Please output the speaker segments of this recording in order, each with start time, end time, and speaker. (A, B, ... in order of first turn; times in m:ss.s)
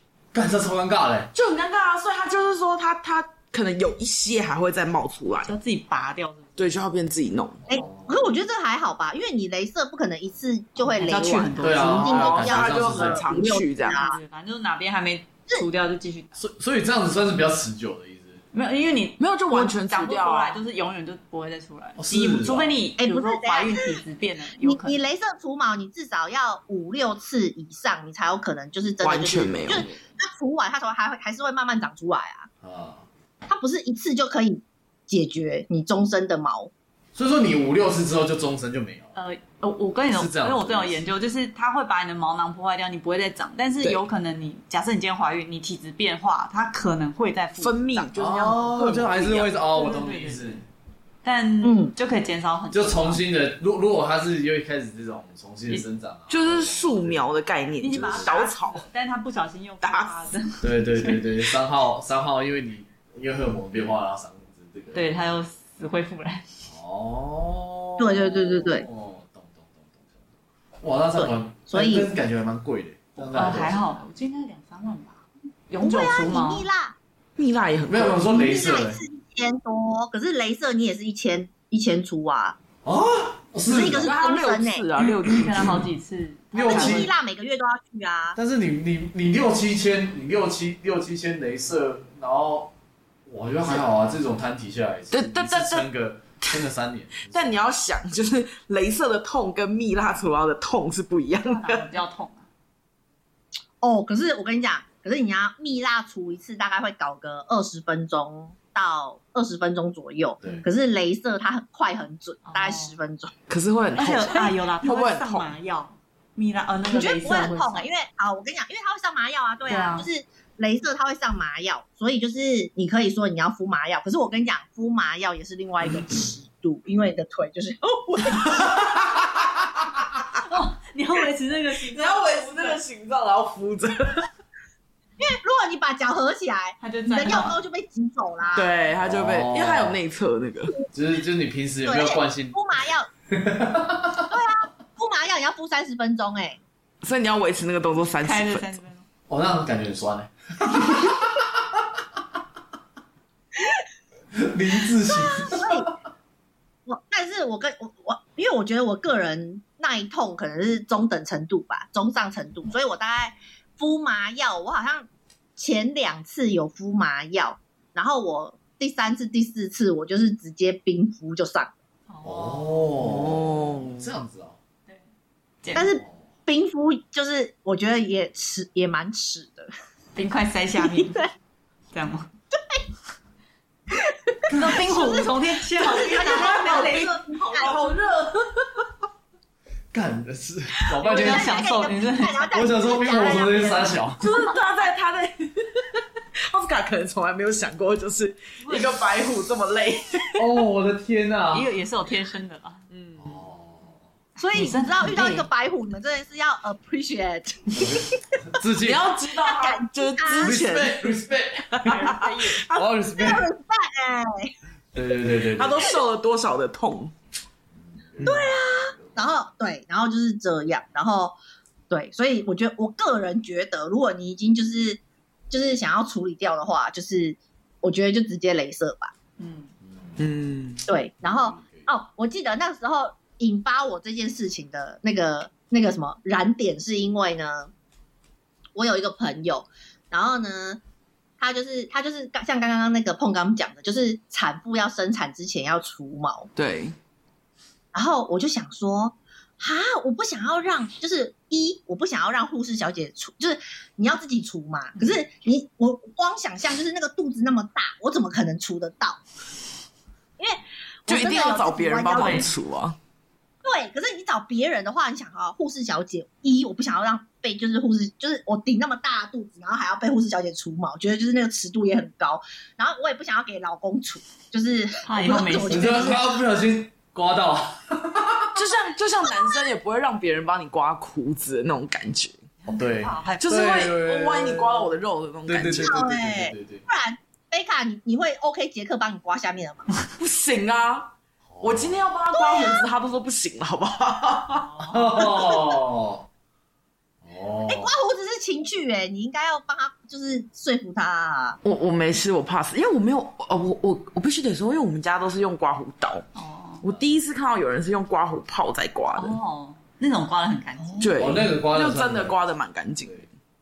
0:00.3-0:01.3 A
0:01.3-0:05.5 B
0:05.4-0:06.7 C
0:06.6-0:07.7 B
0:07.7-0:08.2 A
0:07.7-0:14.2 D
0:10.8-0:12.2 C
0:11.6-0:13.2 A
0:11.8-0:14.0 B
0:13.8-0:16.3 C
0:16.4-0:18.4 A
0:18.5-0:25.0 C
0:19.2-0:20.6 B
0:22.0-0:22.8 A
0:23.0-0:23.9 D
0:24.6-0:32.5 D
0:29.0-0:29.9 B
0:32.6-0:33.0 A
0:33.5-0:36.7 D
0:37.1-0:39.1 A
0:39.1-0:48.1 C
0:40.1-0:41.0 A
0:47.6-0:49.5 B
0:48.2-0:50.6 A
0:49.6-0:50.6 C
0:51.2-0:53.2 C
0:51.6-0:51.9 D
0:52.7-0:57.2 A
0:56.3-0:58.8 B
0:57.8-1:01.2 C
0:57.9-0:58.4 A
0:59.8-1:00.3 B
1:00.6-1:05.1 A
1:04.9-1:06.7 C
1:06.7-1:10.2 A
1:08.0-1:08.9 D
1:10.8-1:13.8 A
1:11.2-1:12.1 D
1:13.3-1:16.7 C
1:15.8-1:17.0 D
1:17.4-1:18.4 B
1:17.9-1:19.0 A
1:18.2-1:22.6 D
1:22.8-1:24.1 A
1:23.6-1:24.8 D
1:23.9-1:25.8 B
1:25.2-1:27.1 C
1:26.5-1:27.1 A
1:26.6-1:28.4 D
1:28.4-1:32.7 A
1:33.3-1:37.5 A
1:35.1-1:35.9 B
1:37.3-1:41.8 B
1:41.4-1:42.5 C
1:43.8-1:53.3 D
1:52.5-1:52.9 C
1:53.5-1:55.5 B
1:54.0-1:57.9 C
1:56.9-2:08.9 D
1:59.7-2:00.0 C
2:10.4-2:12.8 C
2:11.9-2:14.3 B
2:15.2-2:18.7 D
2:16.8-2:17.6 C
2:18.5-2:20.7 B
2:19.0-2:20.0 A
2:20.9-2:22.6 A
2:21.8-2:23.1 D
2:23.3-2:24.3 A
2:24.3-2:26.6 D
2:27.0-2:28.8 B
2:28.2-2:29.0 C
2:29.3-2:31.5 A
2:34.3-2:35.8 A
2:35.1-2:35.9 D
2:36.9-2:51.7 D
2:52.1-2:52.8 C
2:52.2-2:54.6 A
2:53.0-2:54.1 B
2:55.6-2:55.9 C
2:55.7-2:59.7 D
2:56.0-2:56.2 A
3:00.2-3:01.3 C
3:00.8-3:01.3 D
3:01.9-3:02.3 C
3:02.6-3:02.8 D
3:04.3-3:05.2 D
3:04.5-3:04.8 A
3:04.5-3:08.0 C
3:05.8-3:07.9 D
3:06.1-3:08.8 B
3:09.9-3:11.6 A
3:11.0-3:12.5 C
3:11.0-3:14.0 D
3:12.5-3:14.2 A
3:13.1-3:14.4 C
3:14.2-3:20.4 B
3:18.6-3:18.9 C
3:20.4-3:21.7 A
3:21.5-3:22.8 C
3:22.9-3:23.4 B
3:23.2-3:24.0 A
3:24.4-3:28.0 D
3:24.5-3:25.5 C
3:27.8-3:29.0 A
3:28.8-3:32.8 B
3:29.4-3:30.6 D
3:30.4-3:32.2 A
3:31.8-3:32.7 C
3:32.7-3:33.5 A
3:33.2-3:34.5 D
3:34.9-3:36.0 A
3:35.5-3:37.1 B
3:37.9-3:39.3 A
3:38.2-3:41.4 D
3:41.9-3:49.1 D
3:49.4-3:49.7 C
3:49.8-3:50.2 A
3:50.2-3:50.8 B
3:50.9-3:57.7 D
3:51.2-3:51.9 A
3:58.8-4:00.8 D
4:01.4-4:06.5 D
4:06.6-4:07.0 B
4:07.9-4:19.2 D
4:20.4-4:22.5 D
4:21.1-4:23.0 B
4:22.1-4:22.5 C
4:23.6-4:36.3 D
4:35.0-4:36.2 C
4:35.7-4:38.6 A
4:38.6-4:42.4 B
4:42.7-4:43.7 C
4:42.7-4:44.9 A
4:43.4-4:46.0 B
4:45.5-4:46.8 A
4:45.7-4:49.8 D
4:50.2-4:54.7 B
4:51.5-4:52.0 A
4:52.3-4:52.8 D
4:54.5-4:55.6 C
4:54.9-4:56.2 A
4:57.2-4:57.9 A
4:57.7-5:01.6 D
5:01.6-5:06.3 B
5:06.3-5:06.8 C
5:06.8-5:09.4 B
5:09.1-5:11.2 C
5:11.0-5:13.2 B
5:11.1-5:12.4 A